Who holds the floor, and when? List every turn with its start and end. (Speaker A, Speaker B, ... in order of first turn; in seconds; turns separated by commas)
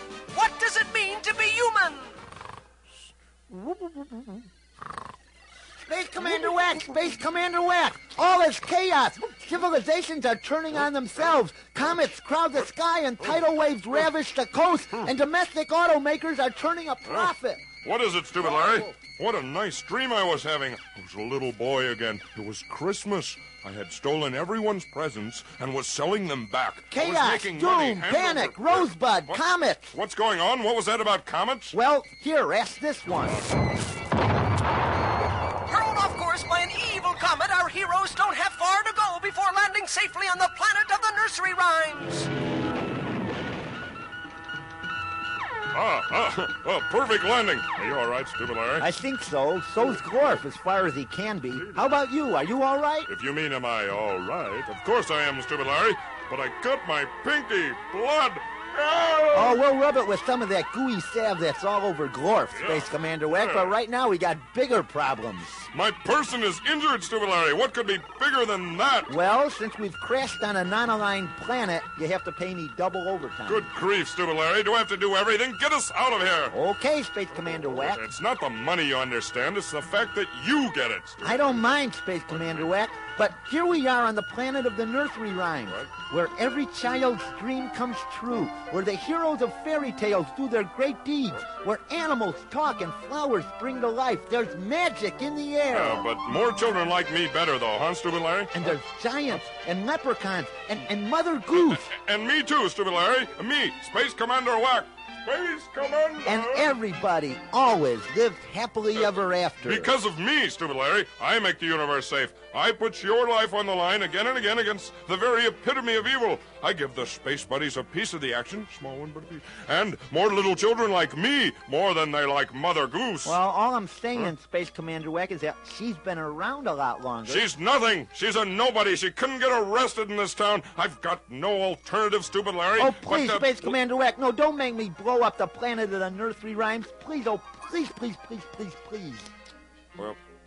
Speaker A: 0.3-2.2, Speaker B: 3.5-4.4, Speaker B: 5.8-17.7, Speaker C: 17.1-31.7, Speaker B: 18.6-18.9, Speaker B: 26.9-30.0, Speaker B: 31.7-33.5, Speaker A: 35.7-42.3, Speaker C: 45.7-48.9, Speaker B: 48.8-53.1, Speaker C: 51.5-52.0, Speaker C: 53.1-59.6, Speaker B: 59.3-65.7, Speaker C: 62.5-63.8, Speaker C: 65.7-69.2, Speaker B: 69.1-73.7, Speaker C: 73.5-76.5, Speaker B: 76.5-78.1, Speaker C: 77.4-81.7, Speaker B: 81.2-96.1, Speaker C: 82.3-82.7, Speaker C: 95.7-98.7, Speaker B: 98.5-101.9, Speaker C: 101.5-106.8, Speaker B: 106.2-109.9, Speaker C: 109.0-123.4, Speaker B: 123.2-127.5, Speaker C: 127.3-133.8, Speaker B: 132.8-139.3